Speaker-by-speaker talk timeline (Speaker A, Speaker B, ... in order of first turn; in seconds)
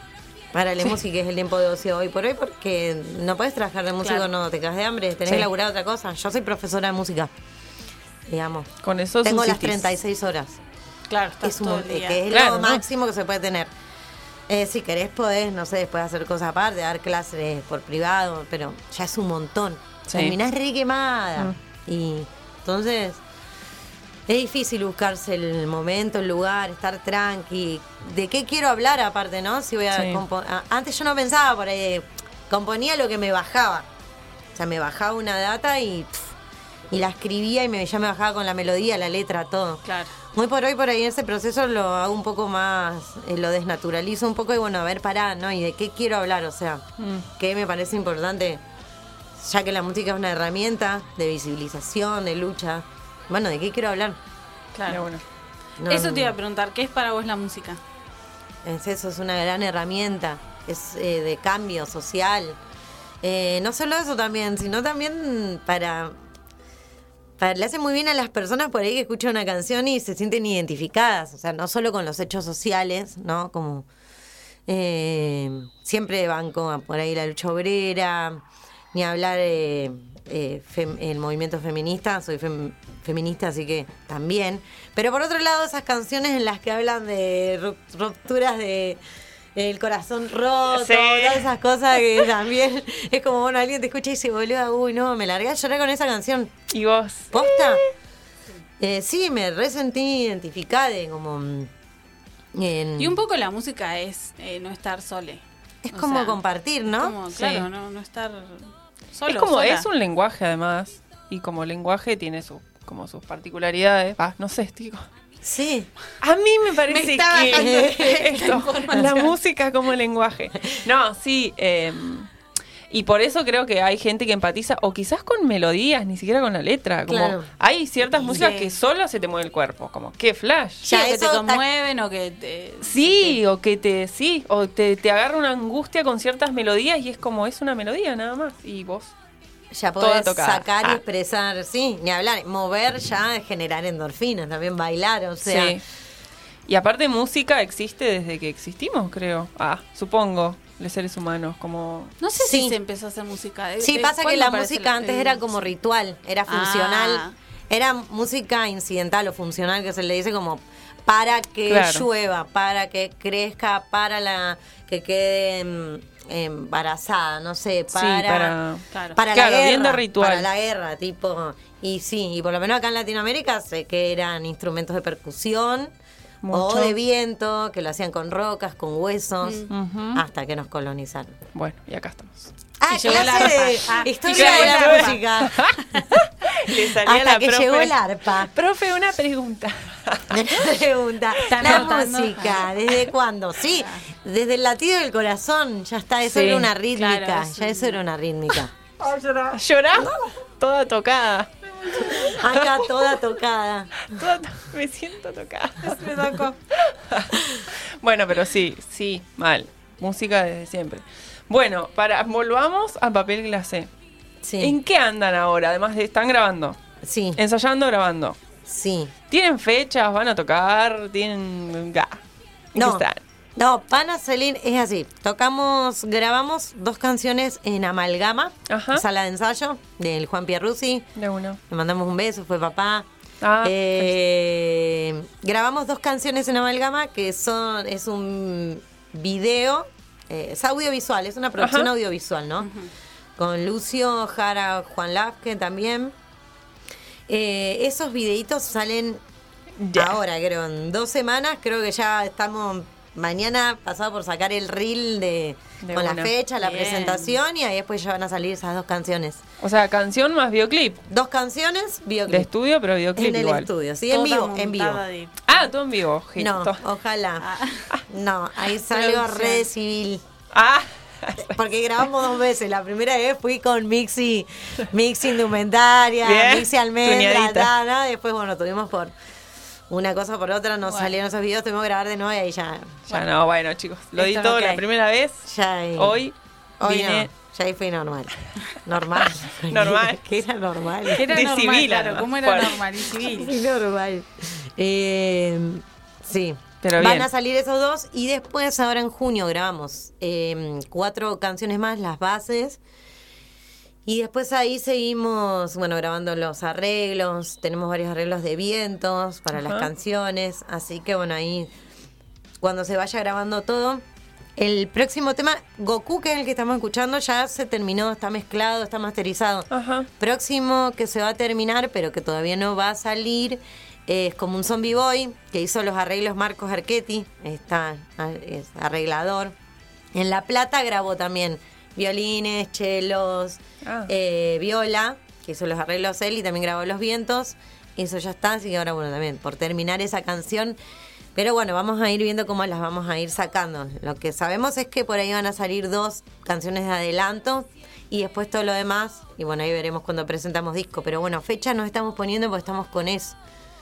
Speaker A: 0.5-7.3, 8.3-10.6, 11.4-13.7, 14.5-23.2, 24.3-33.9, 34.5-36.3, 36.9-48.6, 49.4-54.2, 55.8-56.4, 58.6-62.6, 63.2-66.2, 67.4-73.9, 74.7-78.4, 78.9-89.0, 89.5-96.6, 97.3-97.8, 98.8-101.7, 102.5-103.2, 105.8-107.2, 115.4-115.9, 117.5-118.3, 127.1-127.5, 130.8-131.6, 139.7-145.8, 152.4-152.8, 153.8-168.6, 169.1-175.9, 176.5-181.3, 182.8-185.6, 186.7-188.5, 190.3-198.7, 202.2-204.2, 214.4-214.8, 217.0-217.4, 218.7-219.1, 222.7-223.0, 223.6-231.1, 231.7-233.1, 233.6-242.7, 243.4-246.1, 247.3-249.2, 249.9-259.4, 261.1-262.5, 263.1-265.0, 266.4-267.5, 268.1-270.2, 271.5-279.1, 279.9-283.1, 285.4-286.2, 286.8-291.4, 293.2-302.8, 304.1-311.7, 312.6-314.0, 314.6-319.7, 320.2-329.5, 330.1-340.8, 341.3-353.4
Speaker B: 4.0-4.3, 11.1-12.2, 39.9-40.1, 54.7-55.0, 55.9-57.8, 103.0-109.9, 116.9-119.3, 128.2-128.8, 130.8-133.4, 152.2-155.6, 156.5-157.3, 168.9-169.2, 179.4-179.7, 182.9-185.2, 191.5-192.7, 193.7-194.0, 196.9-198.0, 199.0-199.6, 201.8-202.3, 205.8-206.6, 242.6-242.9, 256.6-257.4, 264.1-265.5, 267.4-267.8, 269.1-269.6, 280.9-281.1, 284.1-284.8, 291.1-293.6
Speaker C: 8.8-9.9, 12.3-12.8, 20.1-20.4, 29.9-30.2, 47.0-47.3, 54.9-55.2, 90.7-91.5, 96.7-97.8, 107.3-107.7, 109.3-115.0, 116.2-122.3, 122.9-130.8, 132.8-139.1, 140.0-141.0, 145.4-145.8, 146.7-152.1, 161.7-162.1, 167.9-170.5, 176.4-176.9, 179.7-180.2, 181.5-182.5, 183.0-183.7, 184.3-187.9, 188.5-190.7, 191.6-191.9, 196.2-196.7, 199.5-201.5, 202.1-202.7, 204.0-206.1, 206.9-207.3, 208.0-213.9, 214.6-216.8, 217.3-218.4, 219.3-222.2, 222.7-223.2, 228.7-229.0, 231.2-231.6, 233.4-234.1, 241.6-241.9, 249.8-250.2, 255.8-256.3, 259.6-261.0, 262.3-263.7, 265.5-266.8, 270.5-271.5, 276.2-277.7, 283.1-285.4, 285.9-287.3, 289.5-290.2, 291.1-292.8, 296.8-297.3, 309.5-309.9, 319.7-320.1, 333.8-334.1